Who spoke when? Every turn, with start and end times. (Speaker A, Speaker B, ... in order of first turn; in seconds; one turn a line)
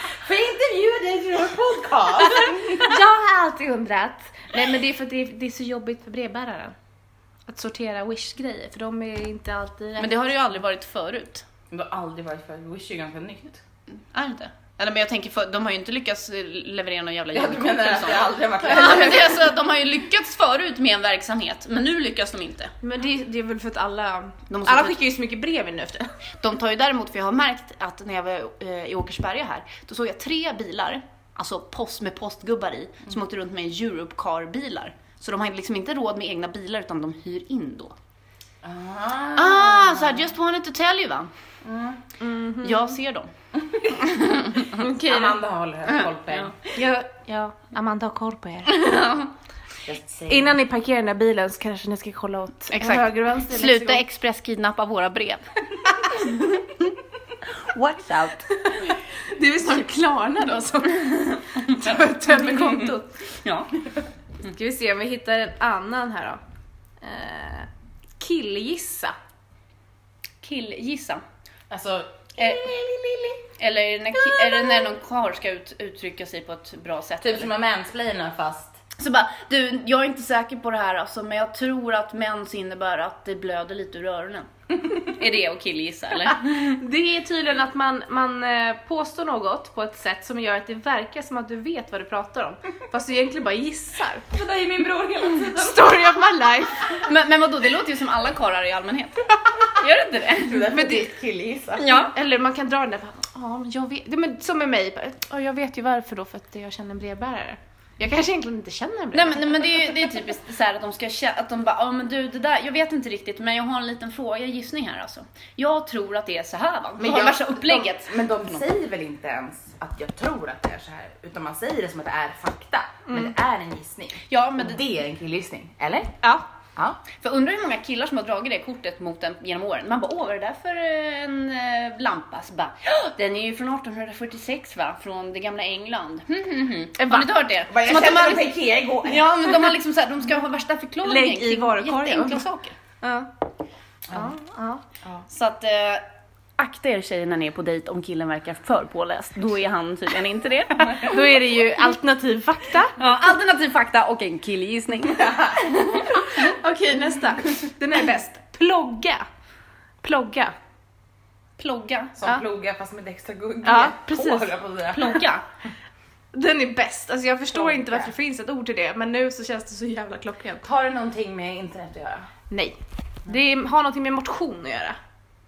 Speaker A: 0.2-3.0
Speaker B: 2.7-6.8
Speaker B: 7.5-10.5
Speaker C: 10.0-11.4
Speaker A: 11.7-13.6
Speaker C: 14.1-22.7
Speaker A: 17.3-19.4
Speaker B: 22.8-26.1
Speaker C: 24.5-25.0
Speaker C: 26.4-37.9
Speaker A: 38.6-40.3
Speaker C: 39.4-41.3
Speaker A: 41.6-42.0
Speaker B: 42.2-43.0
Speaker C: 42.6-43.3
Speaker A: 43.6-44.0
Speaker C: 43.9-44.8
Speaker A: 44.7-46.5
Speaker B: 44.8-45.4
Speaker C: 45.9-46.6
Speaker B: 46.7-48.9
Speaker C: 48.7-49.3
Speaker A: 49.9-50.6
Speaker B: 50.3-54.0
Speaker C: 52.7-55.5
Speaker C: 56.0-56.6
Speaker C: 57.7-58.4
Speaker B: 58.6-63.1
Speaker C: 61.7-63.8
Speaker B: 64.4-66.4
Speaker B: 67.0-67.7
Speaker B: 68.2-69.1
Speaker C: 70.4-71.2
Speaker A: 71.7-73.5
Speaker C: 72.4-72.8
Speaker C: 73.6-77.5
Speaker A: 74.4-74.8
Speaker A: 77.2-78.8
Speaker C: 79.0-86.5
Speaker B: 86.3-94.2
Speaker A: 94.3-96.2
Speaker B: 95.6-97.0
Speaker C: 96.9-100.7
Speaker A: 100.4-101.9
Speaker B: 100.7-101.2
Speaker C: 101.8-102.2
Speaker B: 101.9-110.3
Speaker C: 109.1-118.7
Speaker A: 117.0-127.0
Speaker C: 124.3-124.8
Speaker C: 127.2-142.8
Speaker B: 137.0-137.4
Speaker A: 137.7-139.8
Speaker B: 141.0-142.4
Speaker B: 143.0-143.3
Speaker A: 144.1-144.3
Speaker B: 144.1-144.8
Speaker C: 145.3-146.1
Speaker C: 146.6-151.2
Speaker B: 151.0-152.9
Speaker C: 153.0-156.6
Speaker A: 155.2-155.7
Speaker B: 156.0-159.2
Speaker B: 160.0-160.5
Speaker C: 161.6-162.2
Speaker A: 162.2-165.2
Speaker B: 163.6-164.5
Speaker C: 164.9-165.4
Speaker B: 166.3-170.7
Speaker A: 167.5-168.1
Speaker A: 170.6-172.3
Speaker B: 172.5-175.0